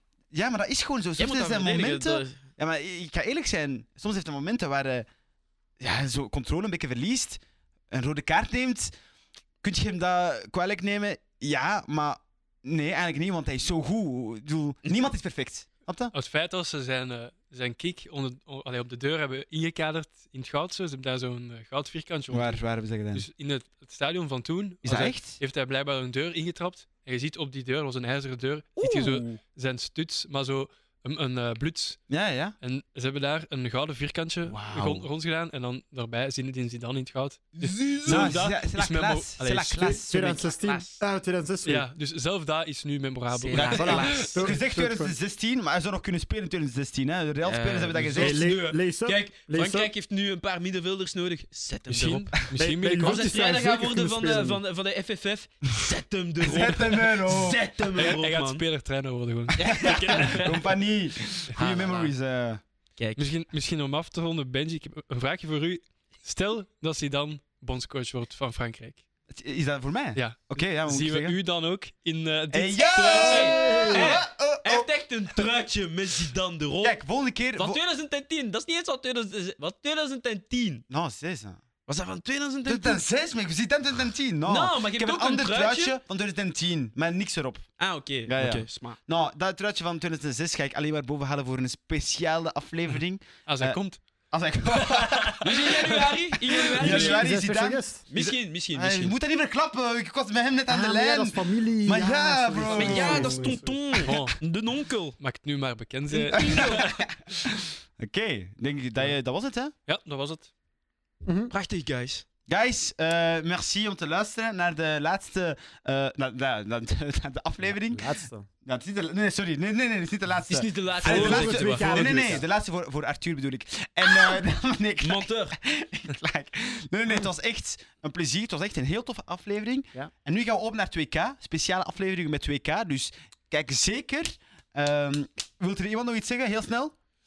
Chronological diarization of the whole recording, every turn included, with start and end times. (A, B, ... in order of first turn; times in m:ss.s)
0:00.3-0:05.1 A
0:01.2-0:02.4 B
0:05.8-0:08.9 A
0:09.6-0:16.1 A
0:16.1-0:32.0 C
0:22.3-0:23.3 A
0:24.8-0:25.4 A
0:28.8-0:29.3 B
0:32.1-0:32.6 A
0:32.6-0:40.0 C
0:34.4-0:35.1 A
0:37.6-0:38.4 B
0:38.0-0:40.5 A
0:39.8-0:41.9 D
0:40.2-0:41.0 B
0:41.6-0:44.3 C
0:43.3-0:44.6 B
0:43.5-0:48.4 A
0:43.7-0:45.1 D
0:47.4-0:52.4 B
0:48.1-0:49.9 D
0:51.9-0:53.3 C
0:52.6-0:54.6 D
0:53.0-0:58.6 B
0:56.4-0:57.6 A
0:58.0-1:00.6 C
0:59.6-1:00.7 B
0:59.6-1:02.6 A
1:01.5-1:02.1 B
1:03.0-1:03.3 B
1:03.2-1:09.0 C
1:09.3-1:11.4 A
1:10.2-1:13.6 C
1:12.5-1:14.9 A
1:13.1-1:17.0 B
1:13.4-1:14.2 D
1:16.8-1:17.8 A
1:17.6-1:20.8 B
1:20.9-1:21.6 A
1:21.9-1:23.1 B
1:22.7-1:27.7 A
1:24.4-1:26.0 B
1:27.8-1:29.0 B
1:28.3-1:33.8 A
1:33.5-1:34.0 C
1:34.3-1:36.1 A
1:34.7-1:36.7 C
1:35.4-1:37.3 B
1:36.7-1:43.4 A
1:36.8-1:38.0 D
1:38.1-1:39.2 B
1:40.7-1:44.0 D
1:42.7-1:45.2 B
1:44.0-1:44.4 C
1:45.2-1:47.1 C
1:46.2-1:46.9 B
1:46.3-1:49.7 A
1:49.9-1:50.5 C
1:51.2-1:51.5 D
1:51.5-1:52.2 B
1:52.5-1:58.0 A
1:57.6-1:58.5 D
1:58.6-2:16.9 A
2:00.5-2:02.4 B
2:01.0-2:02.4 D
2:01.0-2:02.4 C
2:05.0-2:05.6 B